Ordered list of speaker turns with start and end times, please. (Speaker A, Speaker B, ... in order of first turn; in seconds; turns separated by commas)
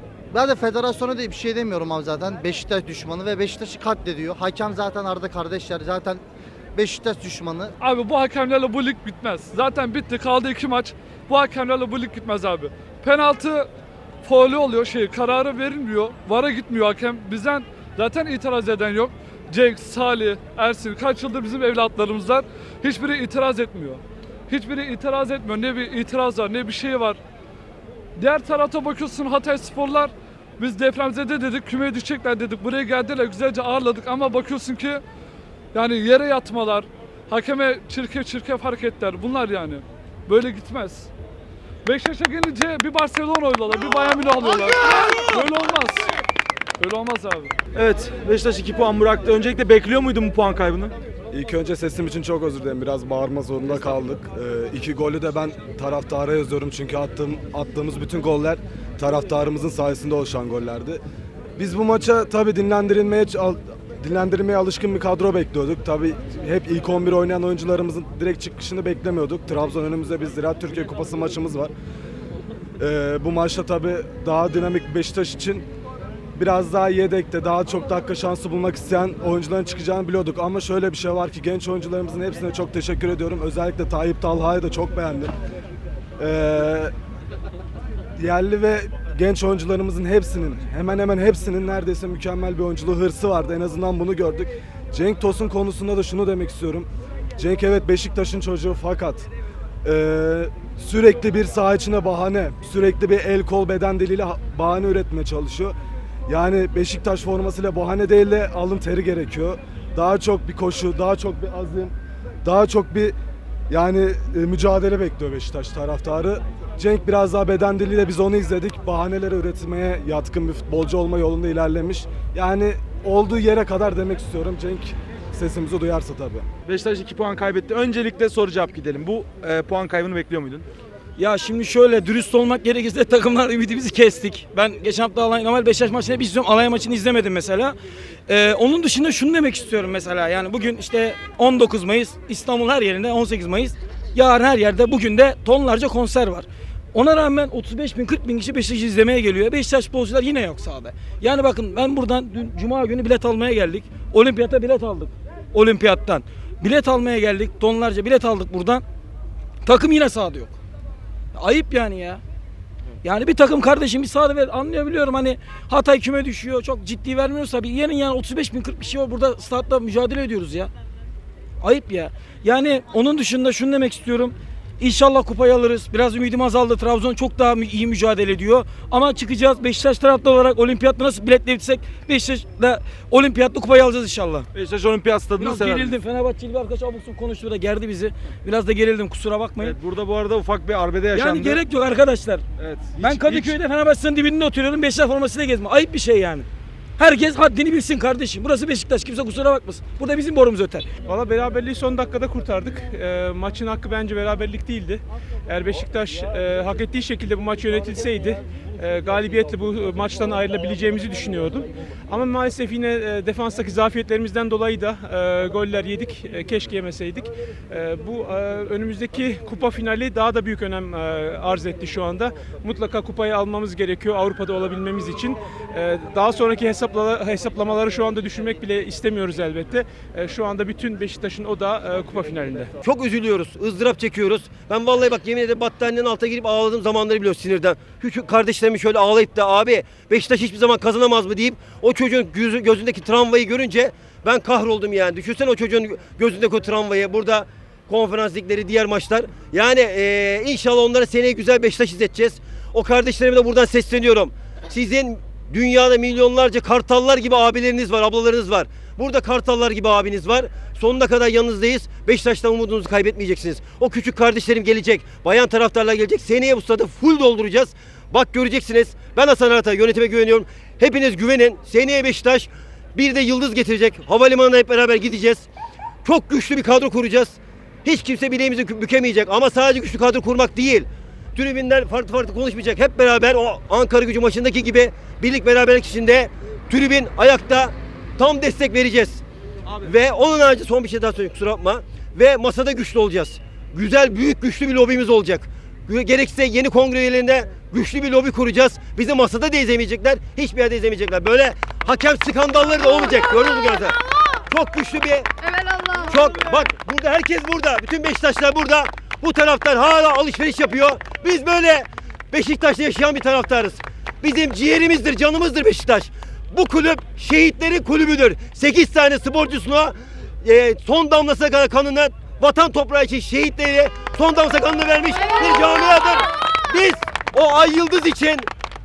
Speaker A: 0.3-6.2, Speaker A: 6.7-7.7, Speaker B: 7.8-13.7, Speaker B: 14.2-27.2, Speaker B: 28.1-35.0, Speaker B: 35.7-41.1, Speaker B: 41.8-46.1, Speaker B: 46.8-47.5, Speaker C: 47.7-50.9, Speaker D: 51.3-61.0, Speaker D: 61.6-71.7, Speaker D: 72.8-75.6, Speaker D: 76.4-85.3, Speaker D: 86.2-86.9, Speaker D: 88.2-96.9, Speaker D: 97.4-99.3, Speaker D: 99.8-105.7, Speaker D: 106.3-113.1, Speaker D: 113.7-126.5, Speaker C: 126.7-130.7, Speaker E: 131.2-137.8, Speaker E: 138.3-158.8, Speaker E: 159.6-160.6, Speaker E: 161.3-162.2, Speaker E: 163.0-170.7, Speaker E: 171.6-184.5, Speaker C: 184.5-185.9, Speaker E: 185.4-189.8, Speaker C: 189.6-191.6, Speaker E: 191.1-192.4, Speaker C: 192.6-193.6, Speaker E: 193.0-196.4, Speaker E: 197.0-200.9, Speaker F: 201.1-232.7, Speaker G: 232.8-275.4, Speaker G: 276.0-289.2, Speaker G: 289.8-305.3, Speaker G: 306.0-328.5